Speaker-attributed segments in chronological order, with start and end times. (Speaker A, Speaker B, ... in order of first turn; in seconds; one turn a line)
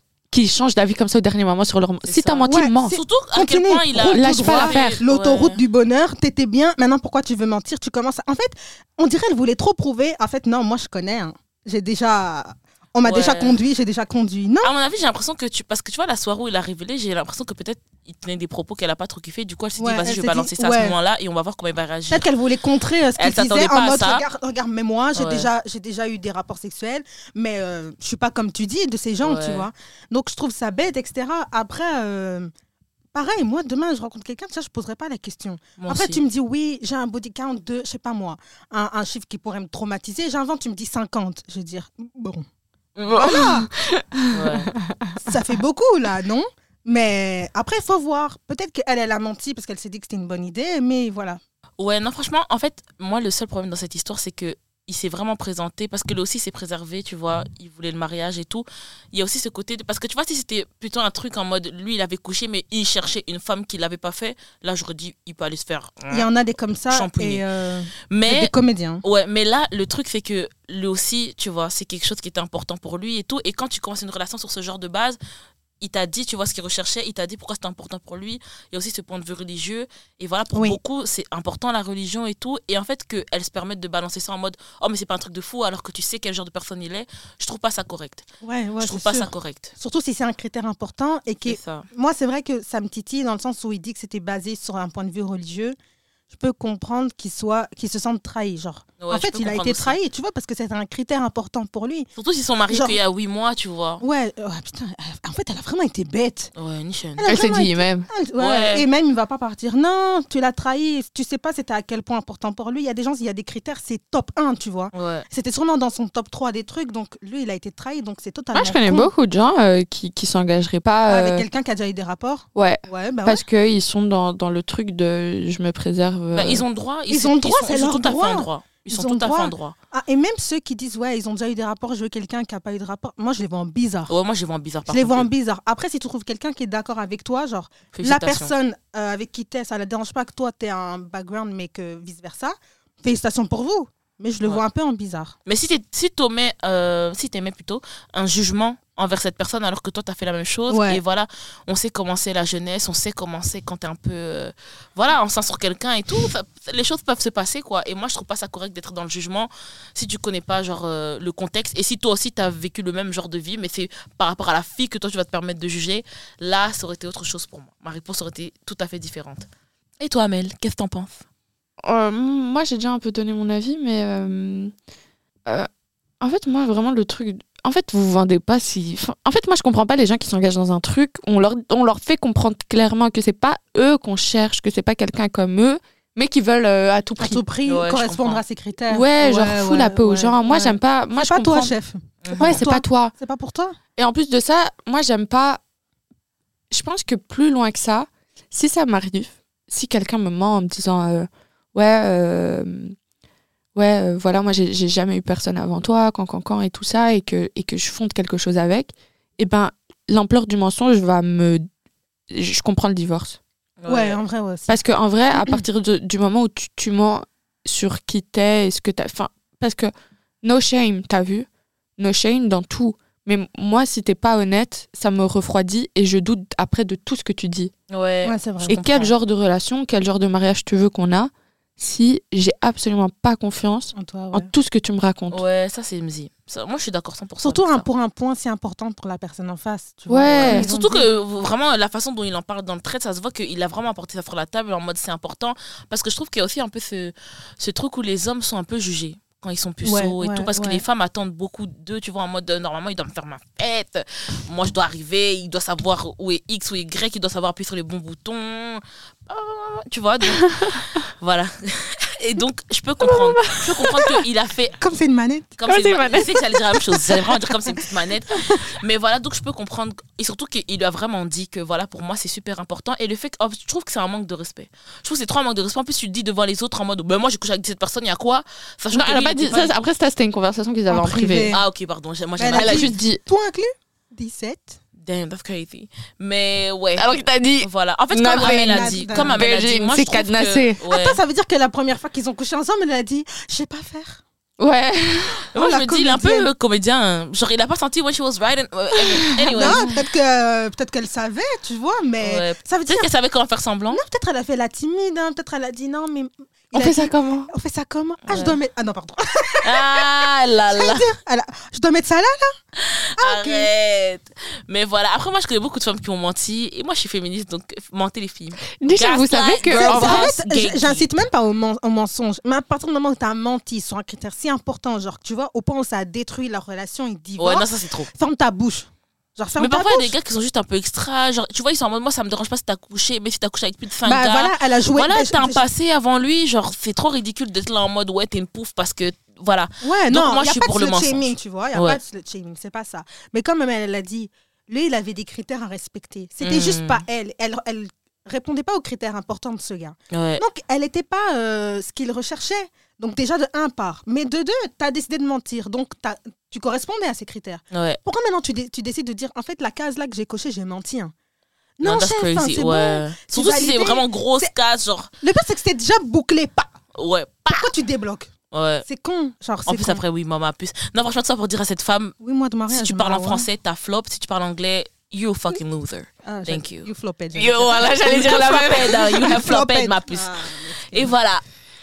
Speaker A: 0.3-3.0
Speaker B: 2.0-5.6
Speaker C: 2.5-14.7
Speaker A: 4.0-5.0
Speaker B: 13.0-13.6
Speaker B: 14.6-22.3
Speaker C: 19.8-21.0
Speaker C: 22.1-32.5
Speaker B: 23.2-24.2
Speaker B: 25.1-25.5
Speaker B: 29.2-29.7
Speaker C: 33.1-42.5
Speaker B: 35.8-36.2
Speaker A: 43.1-45.4
Speaker C: 43.1-43.7
Speaker B: 44.3-44.7
Speaker C: 45.2-51.4
Speaker B: 51.8-66.3
Speaker C: 66.1-69.0
Speaker B: 66.9-67.4
Speaker B: 68.1-68.5
Speaker B: 69.0-75.2
Speaker B: 75.8-88.3
Speaker C: 80.5-80.8
Speaker C: 88.4-95.8
Speaker B: 88.8-89.7
Speaker B: 91.5-91.9
Speaker C: 96.3-102.1
Speaker B: 99.0-100.0
Speaker B: 102.2-104.0
Speaker C: 102.7-103.0
Speaker C: 104.0-106.5
Speaker B: 106.6-107.3
Speaker C: 107.2-119.1
Speaker A: 107.3-108.1
Speaker B: 108.4-108.9
Speaker B: 114.9-115.3
Speaker A: 118.5-121.5
Speaker C: 121.1-123.4
Speaker A: 122.6-126.6
Speaker B: 126.3-129.8
Speaker C: 127.1-134.1
Speaker B: 134.1-135.3
Speaker C: 134.9-145.4
Speaker B: 137.9-138.5
Speaker B: 145.5-169.5
Speaker C: 150.7-151.0
Speaker B: 170.0-171.2
Speaker A: 171.8-174.7
Speaker A: 176.2-187.4
Speaker C: 187.2-193.8
Speaker B: 187.7-188.4
Speaker A: 188.9-191.7
Speaker B: 192.2-192.7
Speaker A: 192.4-193.1
Speaker A: 194.0-195.6
Speaker A: 196.7-202.9
Speaker A: 203.8-211.7
Speaker A: 212.3-213.4
Speaker B: 213.8-214.2
Speaker C: 213.9-214.8
Speaker A: 214.7-221.5
Speaker C: 215.3-215.7
Speaker A: 222.0-227.7
Speaker B: 227.9-229.1
Speaker C: 228.2-229.1
Speaker A: 228.7-235.4
Speaker C: 233.9-234.5
Speaker B: 235.3-237.9
Speaker C: 237.4-241.1
Speaker A: 240.1-240.7
Speaker B: 240.3-264.8
Speaker C: 249.8-250.8
Speaker A: 260.3-261.0
Speaker A: 263.0-264.1
Speaker C: 264.8-265.6
Speaker B: 265.6-279.7
Speaker A: 265.7-267.2
Speaker A: 278.9-281.5
Speaker C: 280.9-281.6
Speaker B: 281.5-283.0
Speaker C: 282.4-284.8
Speaker A: 282.5-283.2
Speaker B: 285.0-291.2
Speaker A: 287.0-290.8
Speaker C: 288.3-289.4
Speaker C: 290.9-294.2
Speaker A: 294.6-295.4
Speaker C: 295.5-296.5
Speaker B: 295.5-299.9
Speaker A: 299.2-300.0
Speaker C: 299.5-303.1
Speaker B: 302.2-304.0
Speaker C: 303.9-312.6
Speaker A: 306.7-307.5
Speaker B: 308.3-308.6
Speaker B: 309.6-311.1
Speaker B: 312.8-321.1
Speaker C: 313.2-313.7
Speaker A: 318.8-320.3
Speaker C: 319.7-330.1
Speaker B: 327.4-328.1
Speaker B: 329.6-342.0
Speaker C: 334.1-335.6
Speaker C: 339.8-361.1
Speaker B: 346.4-347.0
Speaker B: 350.1-350.4
Speaker B: 357.7-358.0
Speaker C: 361.8-364.5
Speaker B: 361.8-365.1
Speaker C: 365.2-366.7
Speaker B: 366.9-367.7
Speaker C: 367.5-368.3
Speaker B: 368.5-368.9
Speaker C: 368.9-370.0
Speaker B: 369.7-372.1
Speaker C: 372.2-373.5
Speaker B: 372.7-376.9
Speaker C: 376.2-381.1
Speaker A: 377.4-379.4
Speaker B: 377.5-381.4